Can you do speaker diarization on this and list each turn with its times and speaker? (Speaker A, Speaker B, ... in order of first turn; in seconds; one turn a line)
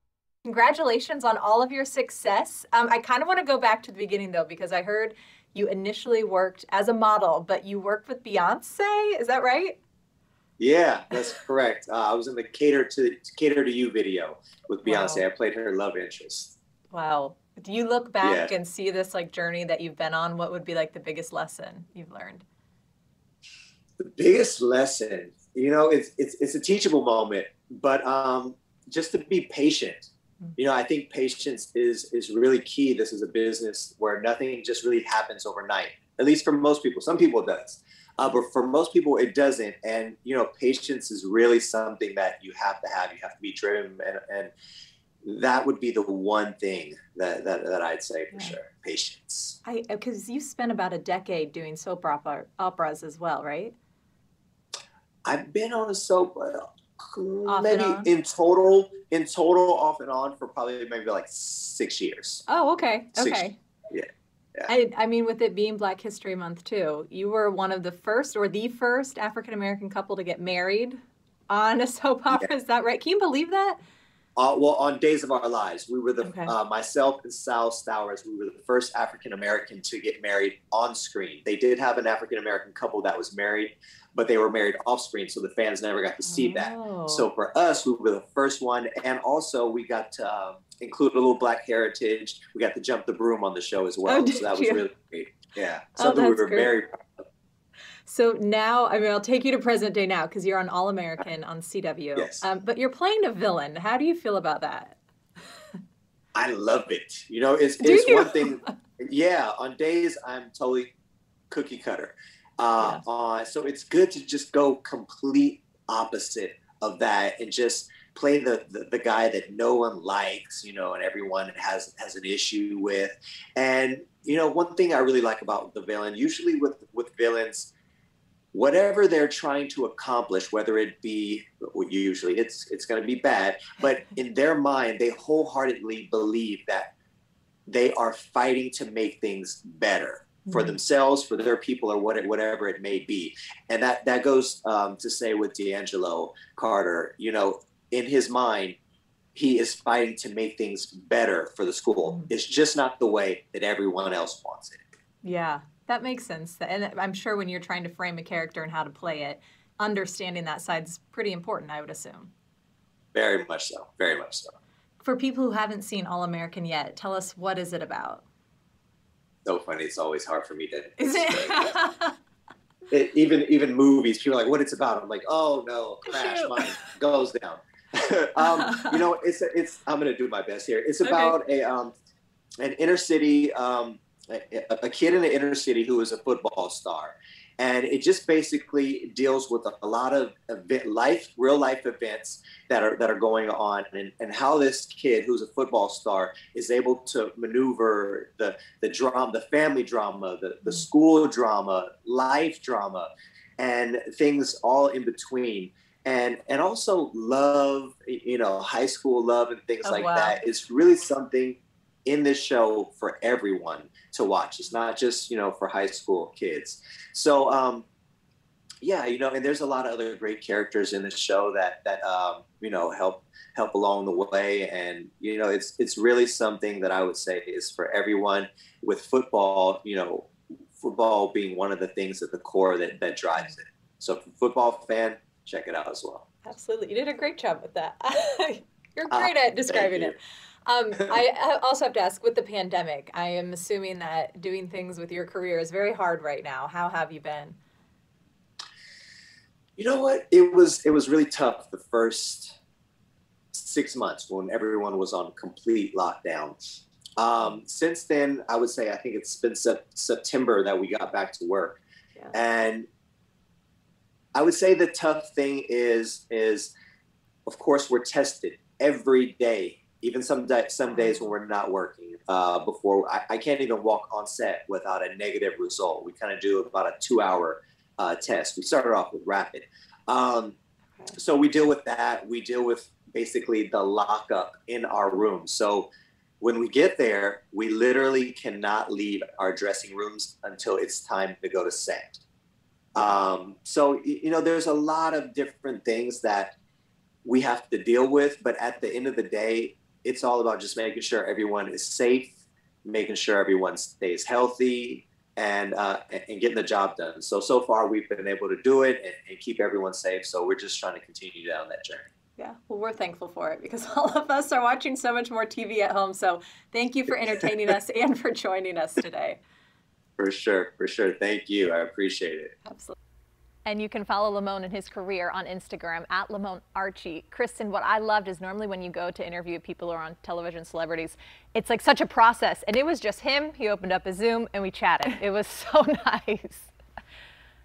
Speaker A: 0.5-9.8
Speaker B: 10.6-16.6
Speaker A: 14.8-15.2
Speaker A: 16.9-22.4
Speaker B: 18.2-18.5
Speaker B: 24.0-44.5
Speaker B: 45.2-49.6
Speaker A: 48.3-48.6
Speaker A: 49.6-53.8
Speaker B: 55.2-62.4
Speaker A: 57.5-58.1
Speaker A: 62.5-63.6
Speaker B: 63.1-64.7
Speaker A: 64.7-73.8
Speaker B: 74.4-97.0
Speaker A: 76.2-76.5
Speaker A: 86.2-87.3
Speaker A: 94.1-94.8
Speaker A: 96.0-96.7
Speaker A: 98.0-105.0
Speaker B: 102.2-102.5
Speaker B: 106.3-110.9
Speaker A: 107.8-108.6
Speaker B: 111.5-127.7
Speaker B: 128.5-136.9
Speaker B: 137.7-148.8
Speaker A: 140.5-140.8
Speaker B: 149.3-154.8
Speaker A: 152.1-152.3
Speaker A: 155.2-162.3
Speaker B: 163.1-164.6
Speaker A: 165.0-168.2
Speaker B: 169.4-171.7
Speaker A: 171.0-172.2
Speaker B: 172.9-181.9
Speaker A: 176.1-176.8
Speaker A: 178.4-179.0
Speaker A: 181.0-181.4
Speaker B: 182.6-217.9
Speaker A: 209.8-210.4
Speaker B: 218.8-236.3
Speaker A: 236.4-247.6
Speaker B: 239.1-240.2
Speaker B: 249.8-252.5
Speaker B: 253.5-256.6
Speaker B: 257.2-261.8
Speaker B: 262.3-262.9
Speaker B: 264.3-266.7
Speaker B: 267.5-280.6
Speaker A: 270.9-271.3
Speaker B: 281.1-285.9
Speaker B: 286.4-292.2
Speaker B: 292.9-296.5
Speaker B: 297.2-312.1
Speaker A: 312.4-319.4
Speaker B: 320.2-322.5
Speaker A: 322.6-322.9
Speaker A: 323.7-336.7